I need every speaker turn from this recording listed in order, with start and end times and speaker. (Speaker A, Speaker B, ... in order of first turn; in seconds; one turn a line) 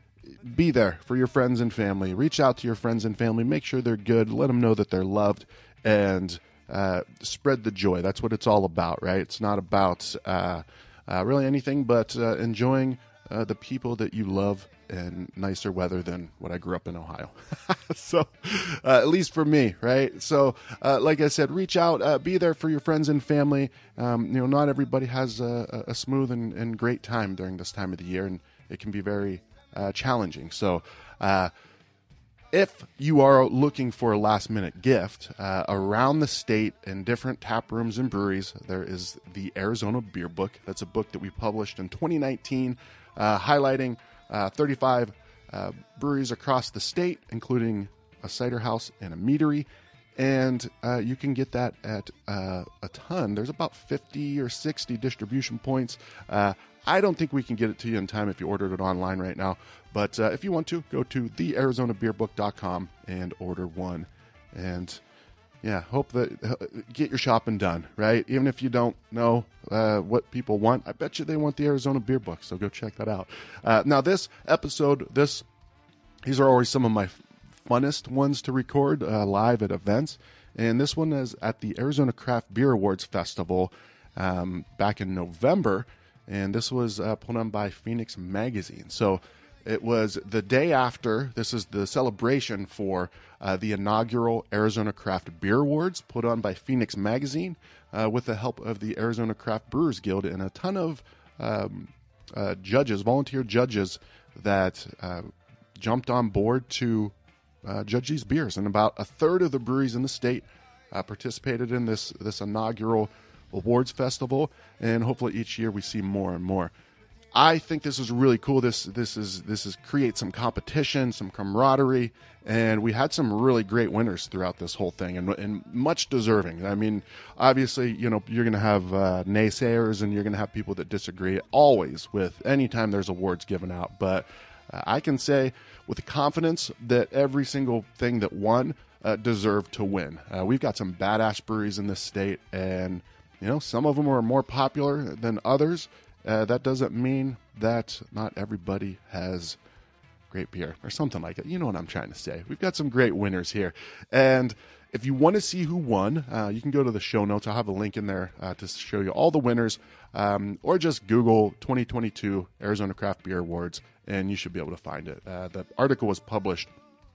Speaker A: 0.3-31.5
Speaker A: 32.5-65.0
Speaker A: 65.6-75.4
Speaker A: 76.2-116.7
Speaker A: 117.3-149.6
Speaker A: 150.3-166.7